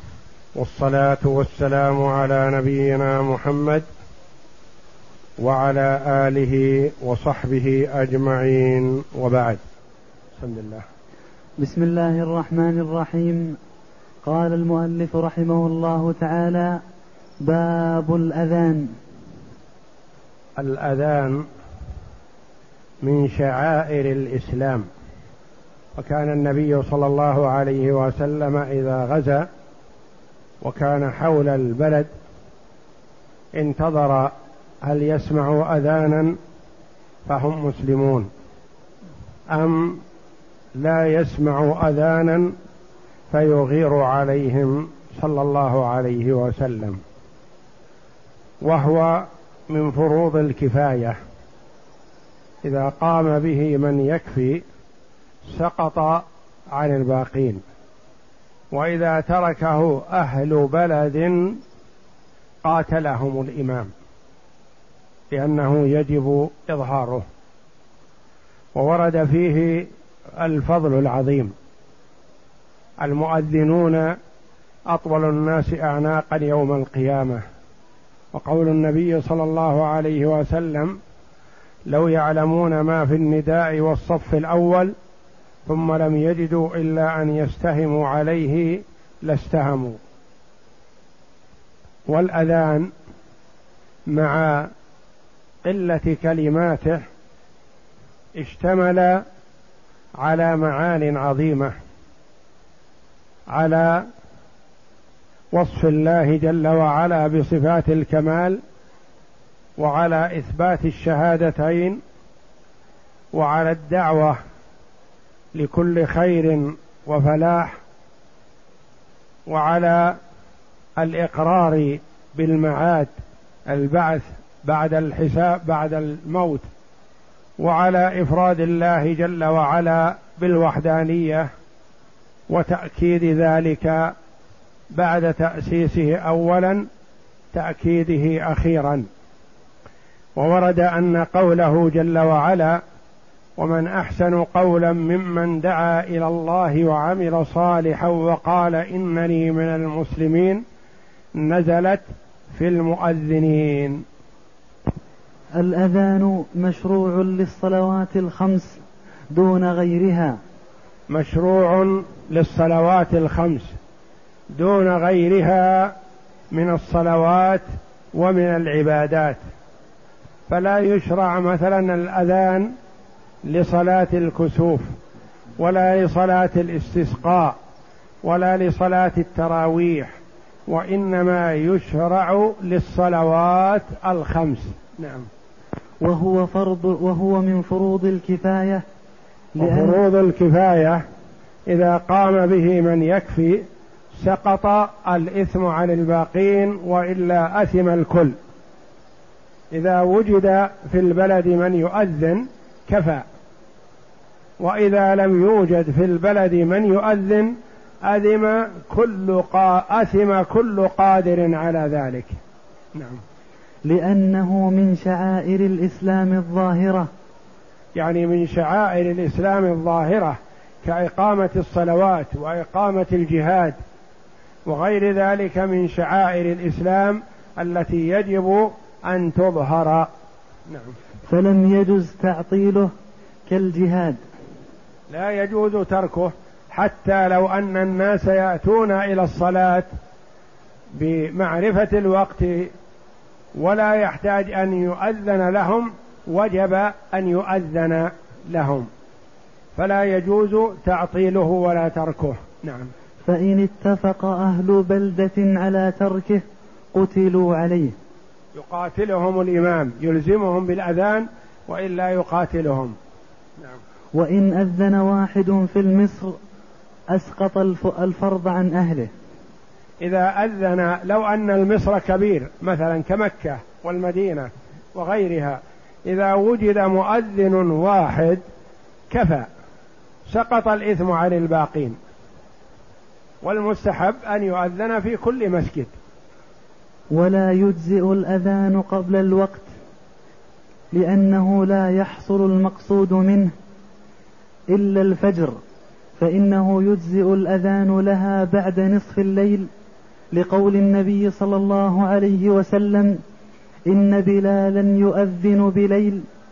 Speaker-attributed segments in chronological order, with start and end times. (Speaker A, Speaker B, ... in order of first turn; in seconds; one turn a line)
Speaker A: 0.6-3.8
Speaker A: 5.4-9.6
Speaker A: 10.4-10.8
Speaker B: 11.6-13.6
Speaker B: 14.2-16.8
Speaker B: 17.4-18.9
Speaker A: 20.6-21.4
Speaker A: 23.0-24.9
Speaker A: 25.9-29.5
Speaker A: 30.6-32.1
Speaker A: 33.5-34.3
Speaker A: 34.8-36.4
Speaker A: 37.2-38.3
Speaker A: 39.5-40.0
Speaker A: 40.8-42.5
Speaker A: 43.3-47.0
Speaker A: 48.6-51.2
Speaker A: 52.6-54.6
Speaker A: 55.5-57.6
Speaker A: 58.7-61.6
Speaker A: 62.6-63.9
Speaker A: 65.3-67.2
Speaker A: 68.7-69.9
Speaker A: 70.4-71.5
Speaker A: 73.0-74.1
Speaker A: 74.9-77.4
Speaker A: 78.3-81.0
Speaker A: 81.9-84.9
Speaker A: 85.7-90.0
Speaker A: 92.1-92.9
Speaker A: 94.1-94.7
Speaker A: 95.6-97.0
Speaker A: 98.3-99.2
Speaker A: 100.2-101.7
Speaker A: 103.5-104.0
Speaker A: 105.5-108.6
Speaker A: 109.8-112.0
Speaker A: 113.3-114.4
Speaker A: 115.5-117.8
Speaker A: 119.5-120.2
Speaker A: 121.0-123.1
Speaker A: 123.7-126.7
Speaker A: 127.6-131.5
Speaker A: 132.5-134.1
Speaker A: 134.9-136.9
Speaker A: 137.5-139.1
Speaker A: 140.3-142.8
Speaker A: 143.6-150.6
Speaker A: 151.3-154.0
Speaker B: 155.6-160.4
Speaker A: 161.1-163.7
Speaker A: 164.5-165.9
Speaker A: 166.5-169.4
Speaker A: 170.5-172.7
Speaker A: 173.4-174.8
Speaker A: 175.6-177.6
Speaker A: 178.2-180.1
Speaker A: 180.7-185.3
Speaker B: 186.0-188.8
Speaker B: 189.6-190.0
Speaker A: 189.6-191.0
Speaker A: 191.7-193.6
Speaker A: 194.1-198.3
Speaker A: 199.7-203.2
Speaker A: 204.6-212.3
Speaker B: 213.8-217.1
Speaker A: 217.9-223.8
Speaker A: 224.7-230.1
Speaker A: 230.7-230.9
Speaker B: 231.3-232.9
Speaker B: 233.5-234.2
Speaker A: 235.1-239.9
Speaker A: 240.9-242.7
Speaker A: 243.5-248.9
Speaker A: 249.8-252.9
Speaker B: 253.2-257.9
Speaker A: 258.5-262.9
Speaker B: 264.1-266.4
Speaker B: 267.1-269.1
Speaker A: 270.0-278.4
Speaker A: 279.1-279.5
Speaker A: 280.3-282.0
Speaker A: 283.4-285.9
Speaker B: 287.1-289.7
Speaker B: 290.9-293.5
Speaker B: 294.7-295.6
Speaker B: 296.2-299.7
Speaker B: 300.3-303.2
Speaker B: 303.9-306.2